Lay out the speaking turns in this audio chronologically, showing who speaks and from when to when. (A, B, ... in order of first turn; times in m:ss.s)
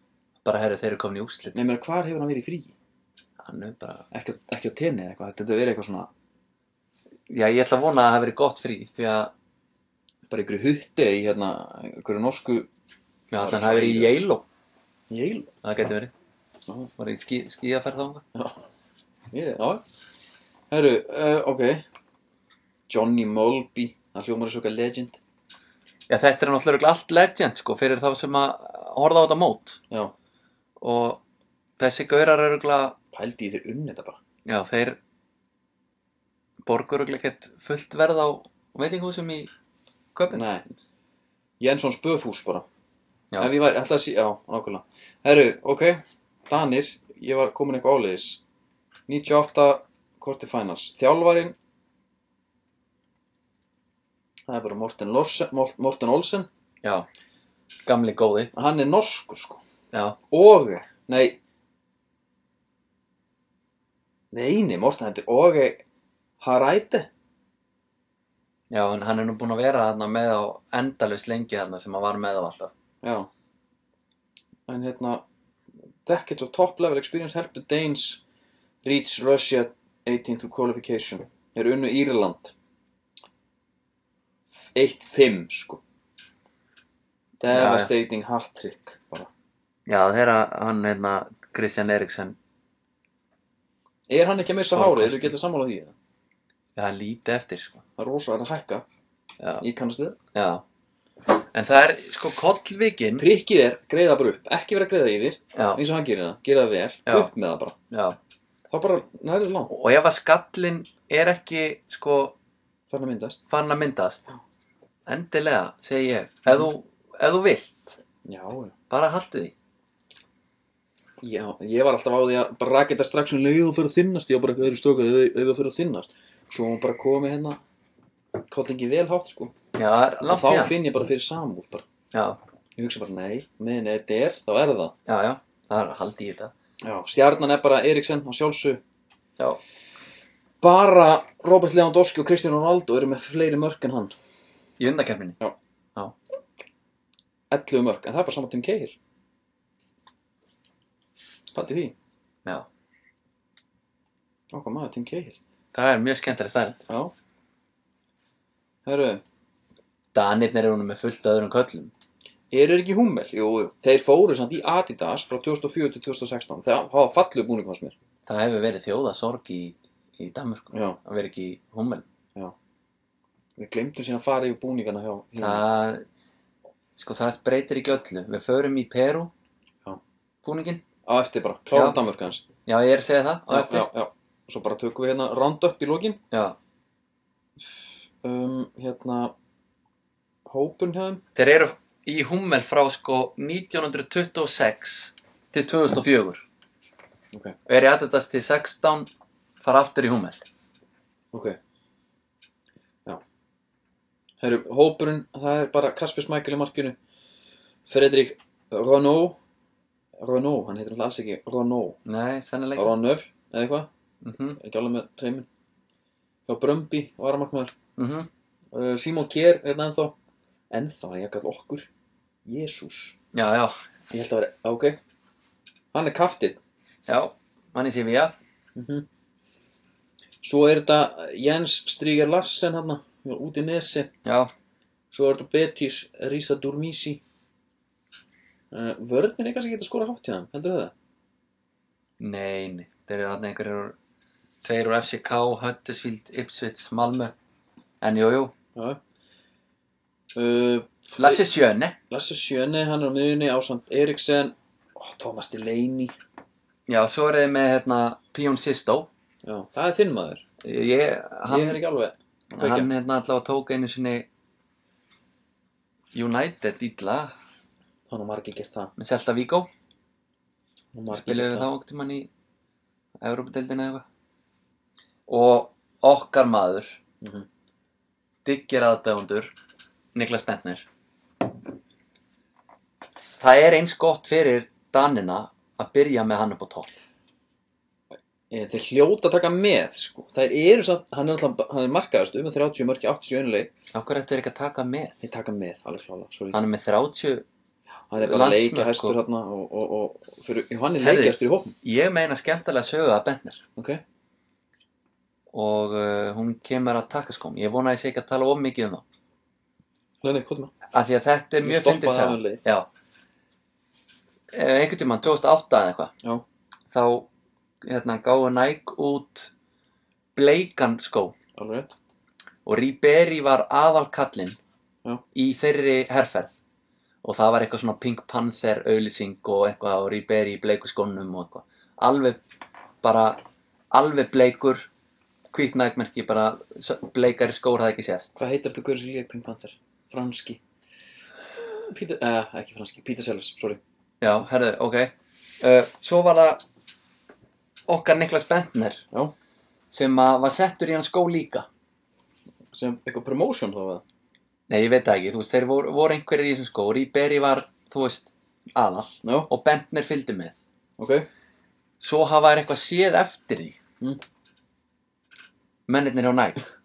0:00.4-0:01.6 A
0:01.5-0:02.7 B
0:03.4-0:04.0 A
0:04.1-0:06.1 B
0:07.3-0:09.3 A
0:10.3-0:12.7 B
0:13.3-0:14.4 A
0:13.4-0:14.2 B
0:15.1-0:15.5 B
0:15.6-0:16.1 A
0:17.0-0:18.2 A
0:18.4-0:18.6 B
0:19.3-0:19.8 B
0:20.7-0:21.8 B
0:22.9-0:25.2 B
0:26.1-0:29.8 A
0:30.8-0:31.2 A
0:31.8-0:33.0 A
0:33.1-0:34.2 B
0:34.5-0:35.0 A
0:36.6-0:39.5 A
0:40.2-0:40.4 A
0:40.3-0:40.7 B
0:41.6-0:42.7 B
0:43.4-0:48.4 B
0:49.1-0:51.6 B
0:54.5-0:56.5 B
0:57.8-0:58.5 A
0:58.5-0:59.6 B
0:59.9-1:00.2 A
1:00.3-1:01.4 B
1:04.3-1:05.8 B
1:06.4-1:07.1 B
1:08.7-1:12.7 A
1:13.0-1:13.3 B
1:14.7-1:15.2 B
1:16.1-1:18.2 B
1:18.8-1:22.5 B
1:24.7-1:25.8 B
1:27.4-1:29.3 B
1:27.5-1:27.9 A
1:29.9-1:32.4 A
1:34.1-1:35.9 B
1:34.7-1:35.4 A
1:36.8-1:37.8 A
1:38.0-1:38.8 B
1:39.4-1:39.6 A
1:39.6-1:40.2 B
1:40.3-1:40.6 A
1:41.5-1:43.3 A
1:43.2-1:47.8 B
1:45.5-1:45.8 A
1:47.9-1:48.2 A
1:48.7-1:49.7 B
1:49.7-1:52.4 A
1:52.9-1:53.4 B
1:53.5-1:54.2 A
1:55.1-1:58.0 A
1:58.2-1:58.8 B
1:58.9-1:59.5 A
2:01.2-2:07.6 B
2:08.4-2:09.5 B
2:09.7-2:10.8 A
2:10.2-2:11.8 B
2:12.1-2:12.4 A
2:12.8-2:14.9 B
2:15.1-2:16.5 A
2:16.8-2:18.8 B
2:20.6-2:24.1 B
2:24.8-2:25.4 A
2:27.5-2:29.0 B
2:31.5-2:32.0 B
2:34.5-2:35.4 B
2:35.7-2:36.8 A
2:38.9-2:39.2 B
2:40.1-2:41.9 A
2:42.5-2:48.0 B
2:48.3-2:52.0 A
2:50.7-2:51.0 B
2:53.6-2:55.6 B
2:55.4-2:56.0 A
2:57.0-2:59.3 A
3:00.4-3:00.8 A
3:01.1-3:02.4 B
3:01.7-3:02.0 A
3:02.7-3:03.9 A
3:03.5-3:06.2 B
3:06.3-3:06.6 A
3:07.6-3:09.3 B
3:10.5-3:11.2 B
3:11.4-3:16.4 A
3:17.7-3:19.1 A
3:19.6-3:20.4 A
3:21.3-3:21.6 B
3:24.4-3:27.0 B
3:27.9-3:29.4 B
3:30.2-3:32.0 B
3:32.0-3:32.9 A
3:32.8-3:33.9 B
3:34.2-3:34.6 A
3:34.6-3:35.5 B
3:36.5-3:37.7 B
3:38.0-3:38.3 A
3:38.7-3:40.2 B
3:40.7-3:41.9 B
3:42.5-3:43.2 B
3:43.3-3:43.8 A
3:44.1-3:45.0 B
3:45.9-3:46.6 B
3:47.1-3:48.4 A
3:48.8-3:49.1 B
3:50.4-3:54.1 B
3:54.2-3:54.5 A
3:55.1-3:57.2 B
3:58.7-4:00.9 B
4:02.2-4:04.0 A
4:04.6-4:07.3 A
4:08.0-4:08.5 A
4:10.4-4:11.4 B
4:11.2-4:12.0 A
4:12.1-4:16.1 B
4:16.9-4:19.1 A
4:19.4-4:20.4 B
4:20.6-4:21.8 A
4:21.5-4:22.9 B
4:22.6-4:24.3 A
4:26.1-4:27.3 A
4:28.1-4:28.9 B
4:29.0-4:29.7 A
4:31.0-4:31.7 B
4:31.1-4:32.3 A
4:33.2-4:34.0 A
4:35.3-4:37.0 A
4:37.2-4:37.5 B
4:38.4-4:39.5 A
4:40.1-4:40.8 A
4:43.4-4:46.9 A
4:48.5-4:53.7 B
4:53.9-4:55.2 A
4:55.2-4:56.6 B
4:56.5-4:57.5 A
4:58.1-5:01.7 B
4:58.2-4:59.2 A
5:01.0-5:03.6 A
5:03.8-5:04.0 B
5:05.5-5:09.0 A
5:10.2-5:10.7 B
5:10.9-5:12.9 A
5:11.6-5:12.6 B
5:14.5-5:16.1 A
5:16.9-5:17.3 A
5:17.8-5:19.5 A
5:20.4-5:21.4 A
5:21.6-5:22.0 B
5:22.6-5:24.6 A
5:25.3-5:26.5 A
5:27.2-5:32.4 A
5:33.0-5:34.9 A
5:35.5-5:38.3 A
5:38.4-5:40.6 B
5:41.6-5:43.8 B
5:44.2-5:46.6 A
5:47.9-5:49.0 A
5:49.9-5:51.7 A
5:52.7-5:54.0 B
5:54.7-6:00.6 A
5:59.2-5:59.5 B
6:01.0-6:01.3 B
6:02.0-6:03.8 A
6:05.9-6:06.6 A